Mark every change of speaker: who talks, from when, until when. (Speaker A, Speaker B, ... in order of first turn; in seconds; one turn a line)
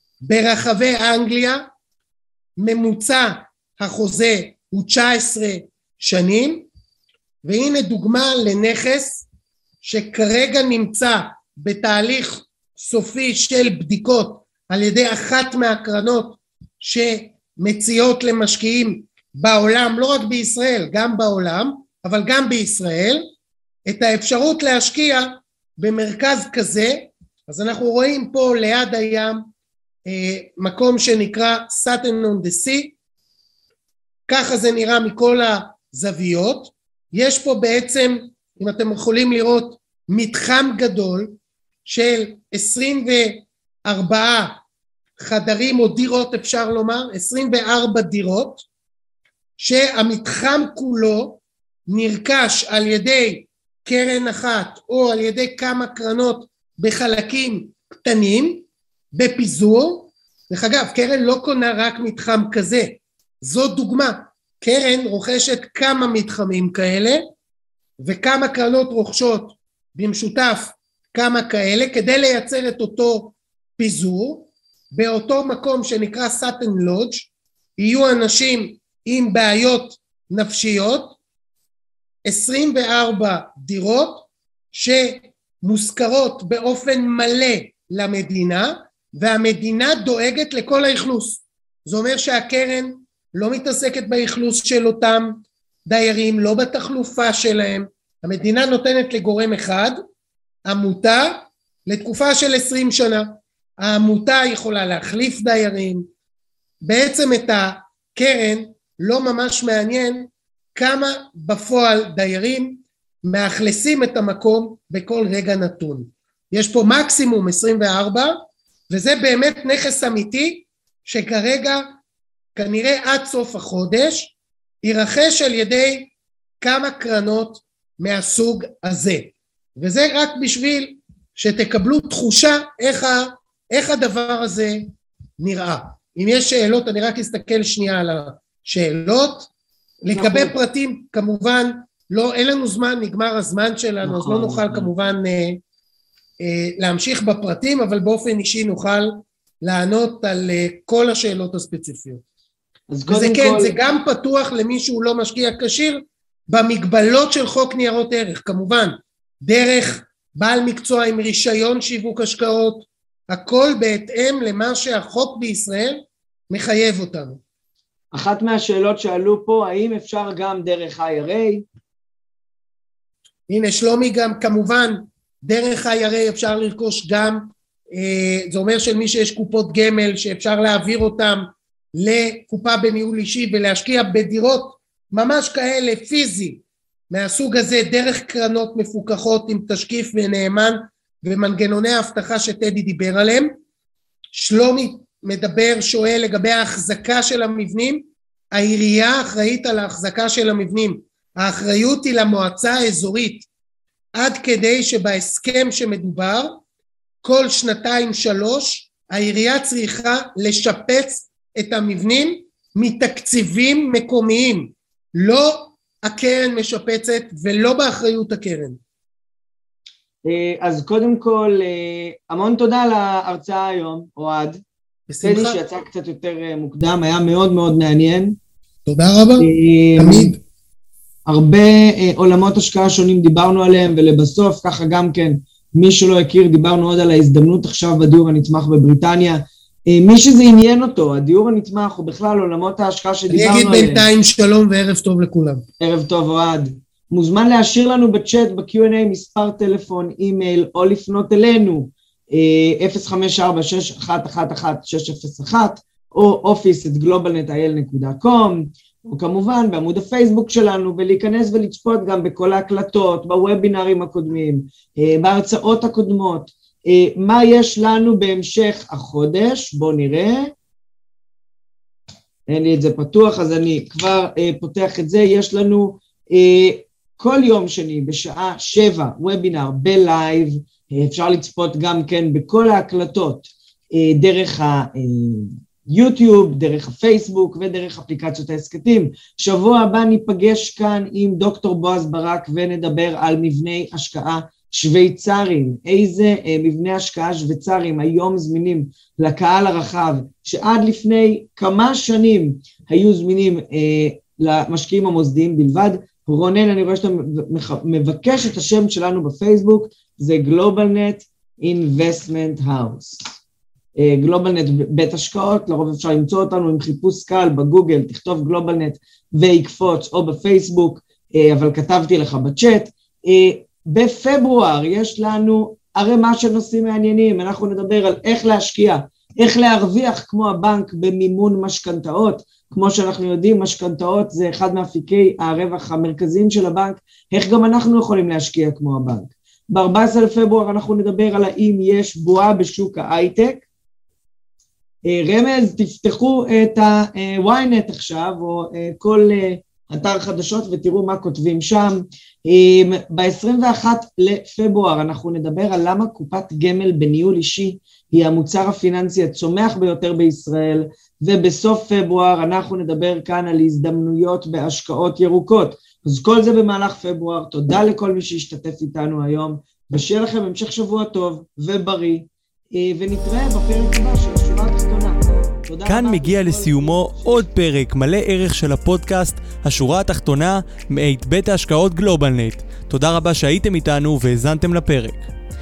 Speaker A: 0.2-1.7
Speaker A: 2.6-6.7
Speaker A: 7.4-9.2
Speaker A: 9.8-23.2
Speaker A: 23.9-29.4
Speaker A: 30.1-32.9
Speaker A: 34.3-44.6
Speaker A: 45.2-48.6
Speaker A: 49.6-67.2
Speaker A: 68.0-81.2
Speaker A: 82.2-100.0
Speaker A: 100.7-106.1
Speaker A: 106.8-118.4
Speaker A: 118.9-121.9
Speaker A: 122.5-139.5
Speaker A: 140.0-145.6
Speaker B: 140.1-140.5
Speaker B: 144.0-144.9
Speaker A: 146.4-152.2
Speaker B: 152.9-153.8
Speaker A: 153.1-167.4
Speaker B: 168.1-171.7
Speaker A: 173.5-193.5
Speaker A: 194.3-203.5
Speaker A: 204.1-206.6
Speaker A: 207.2-218.8
Speaker B: 220.2-224.6
Speaker A: 225.1-225.6
Speaker B: 225.2-228.4
Speaker A: 228.8-230.4
Speaker B: 229.4-230.4
Speaker B: 231.2-244.1
Speaker A: 243.3-245.6
Speaker B: 245.8-270.5
Speaker B: 272.5-313.3
Speaker B: 313.9-343.6
Speaker B: 345.0-377.5
Speaker C: 375.9-385.2